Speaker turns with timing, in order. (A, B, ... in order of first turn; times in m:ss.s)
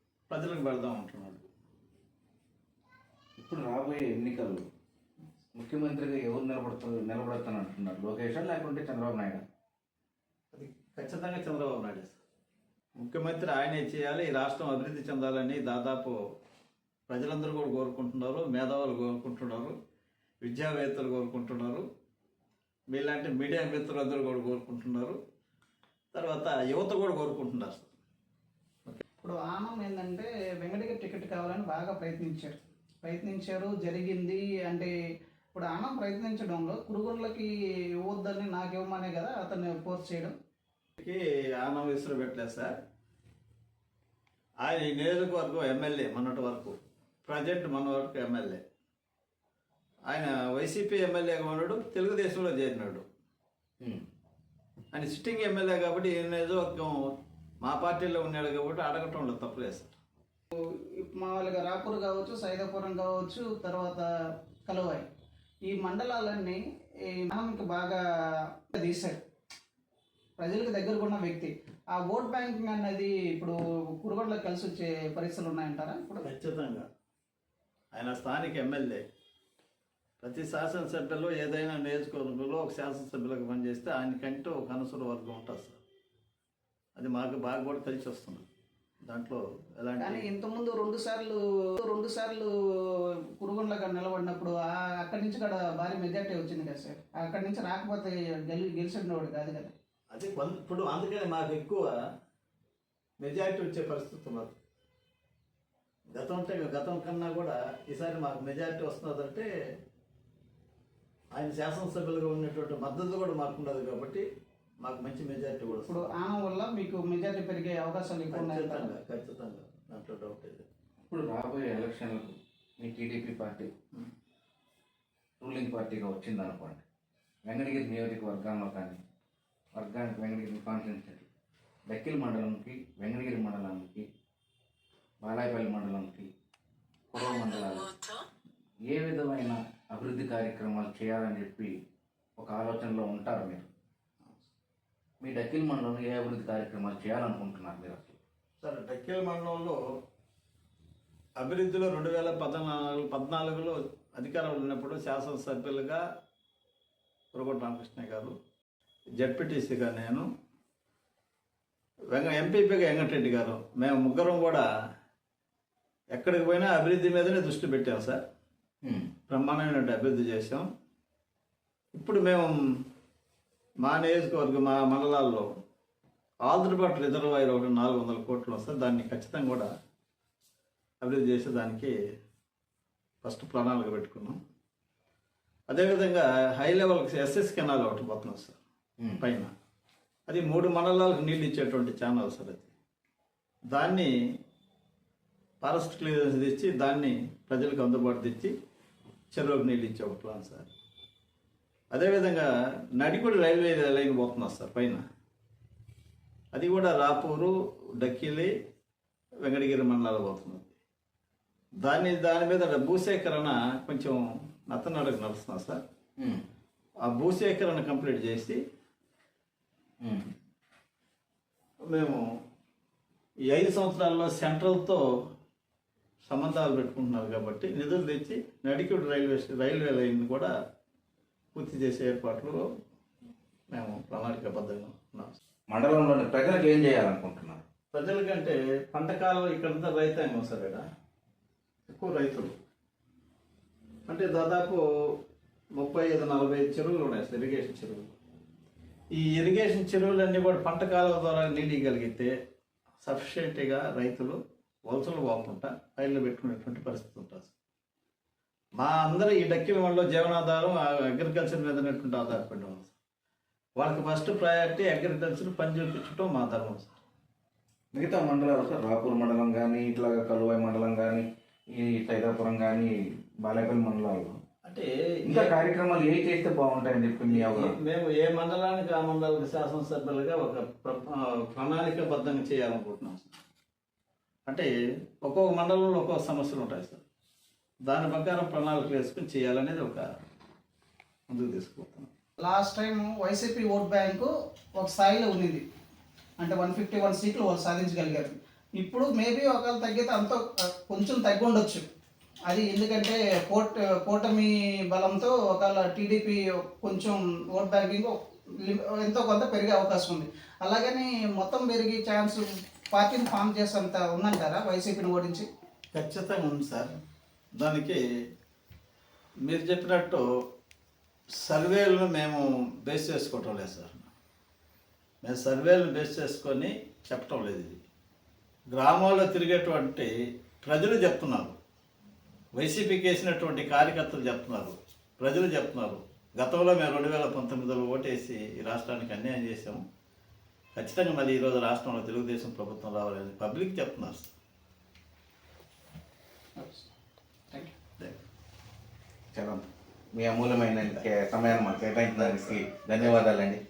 0:00.3-0:01.4 A
0:03.4-0:04.6 B
0:05.5-0:09.4 B
0:10.5-0:12.2 A
0:13.0-0:16.2 A
0:17.1-0:19.7 A
0:20.4-0:21.8 A
0:22.9-0:25.2 A
0:26.1-0:27.9 A
0:29.2-0:34.9 C
0:35.5-0:40.3 C
0:41.0-0:42.7 A
0:44.6-0:48.6 A
0:50.1-0:53.0 A
0:54.9-0:56.9 A
0:57.6-0:59.9 A
1:00.5-1:04.0 C
1:04.6-1:05.0 C
1:05.6-1:08.0 C
1:08.7-1:09.2 C
1:10.4-1:16.3 C
1:16.2-1:16.8 A
1:17.9-1:19.0 A
1:20.2-1:25.8 A
1:27.0-1:28.4 A
1:29.0-1:30.3 A
1:30.0-1:39.7 C
1:40.1-1:41.9 A
1:43.2-1:44.6 A
1:46.1-1:49.5 A
1:51.3-1:54.2 A
1:54.8-1:56.1 A
1:55.7-1:58.9 C
1:58.3-2:00.6 A
2:01.1-2:03.7 B
2:05.4-2:06.8 B
2:07.4-2:09.0 B
2:09.7-2:11.2 B
2:11.9-2:14.0 B
2:15.2-2:16.3 B
2:17.1-2:18.0 B
2:18.9-2:21.8 B
2:22.4-2:23.7 B
2:25.2-2:28.2 B
2:28.6-2:29.8 A
2:31.4-2:36.0 A
2:37.3-2:38.3 A
2:39.2-2:40.2 A
2:42.1-2:44.6 A
2:46.1-2:48.2 A
2:48.8-2:49.1 B
2:49.3-2:50.6 A
2:51.9-2:52.5 A
2:53.8-2:55.4 A
2:56.4-2:59.7 A
3:01.0-3:01.9 A
3:03.2-3:04.4 A
3:05.7-3:08.6 A
3:09.0-3:09.2 B
3:09.2-3:09.5 A
3:10.3-3:12.7 A
3:13.7-3:14.1 A
3:15.6-3:18.5 A
3:19.3-3:20.7 A
3:21.9-3:25.0 A
3:26.5-3:28.5 A
3:29.4-3:30.7 A
3:31.8-3:35.8 A
3:36.2-3:36.4 B
3:37.0-3:38.6 A
3:40.0-3:40.3 B
3:41.9-3:42.2 A
3:43.5-3:45.0 A
3:46.3-3:50.5 A
3:51.5-3:52.6 A
3:53.7-3:55.4 A
3:55.7-3:57.6 B
3:57.9-4:00.8 A
4:01.9-4:02.5 A
4:04.1-4:04.8 A
4:05.8-4:08.1 A
4:09.1-4:12.3 A
4:13.0-4:17.5 A
4:18.8-4:22.9 A
4:23.8-4:26.9 A
4:27.9-4:34.4 B
4:34.6-4:35.5 A
4:35.2-4:37.7 B
4:37.3-4:43.3 A
4:45.2-4:47.0 A
4:47.8-4:50.0 A
4:51.3-4:52.1 A
4:52.4-4:55.6 C
4:56.4-5:01.8 C
5:02.5-5:15.4 C
5:15.9-5:16.9 A
5:17.6-5:18.0 A
5:19.4-5:20.2 A
5:21.4-5:24.1 A
5:25.2-5:27.8 A
5:28.7-5:30.1 A
5:30.6-5:31.5 A
5:32.5-5:39.8 A
5:40.7-5:44.3 A
5:46.6-5:46.9 C
5:49.3-5:53.6 B
5:52.2-5:53.3 A